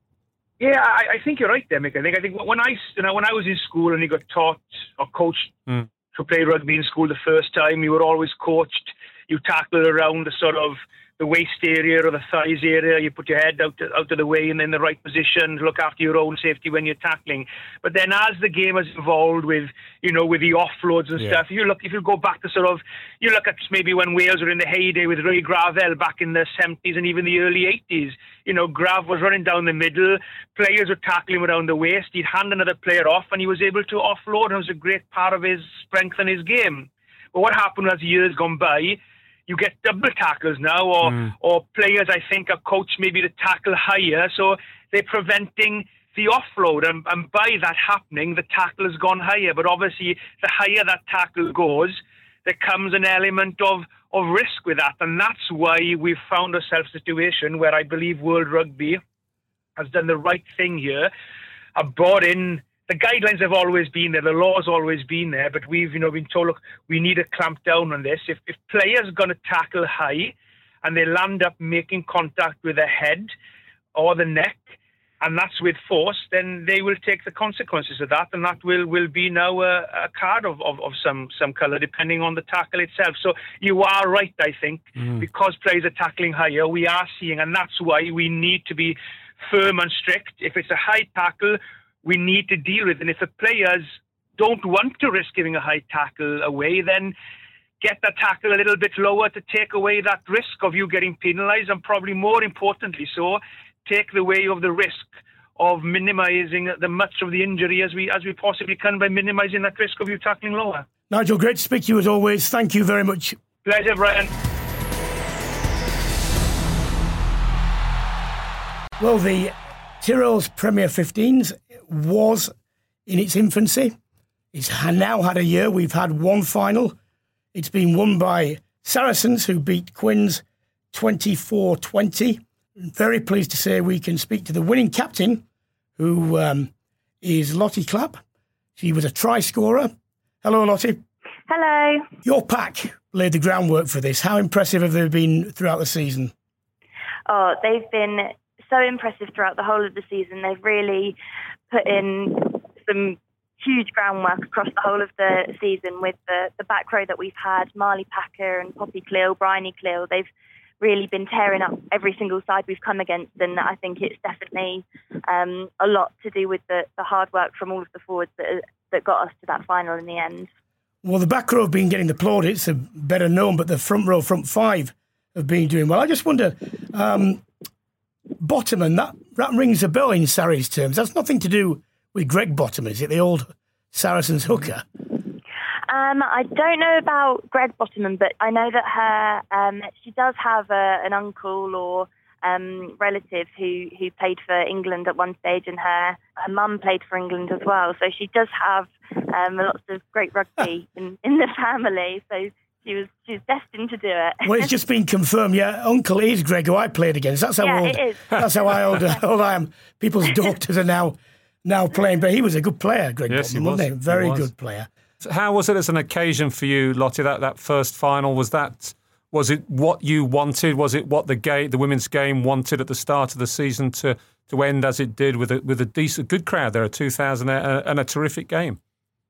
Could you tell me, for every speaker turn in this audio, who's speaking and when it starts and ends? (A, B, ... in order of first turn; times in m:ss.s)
0:00.6-0:05.6 A
0:06.1-0:59.0 A
0:59.8-1:01.1 A
1:01.8-1:13.3 A
1:13.9-1:14.7 A
1:15.2-1:33.8 A
1:34.4-1:37.1 A
1:37.8-1:50.8 A
1:51.1-1:53.4 B
1:53.6-1:54.3 A
1:59.0-2:02.5 B
2:03.0-2:04.0 B
2:04.5-2:07.0 B
2:07.5-2:15.4 B
2:16.0-2:16.7 B
2:17.2-2:18.2 B
2:18.8-2:21.0 B
2:21.5-2:22.0 C
2:22.2-2:26.3 B
2:27.3-2:31.2 C
2:31.7-2:40.3 C
2:40.8-2:50.5 C
2:51.0-2:57.4 B
2:58.4-3:04.8 B
3:05.9-3:24.7 C
3:24.4-3:34.9 B
3:27.6-3:28.4 C
3:33.3-3:34.5 D
3:35.2-3:48.8 D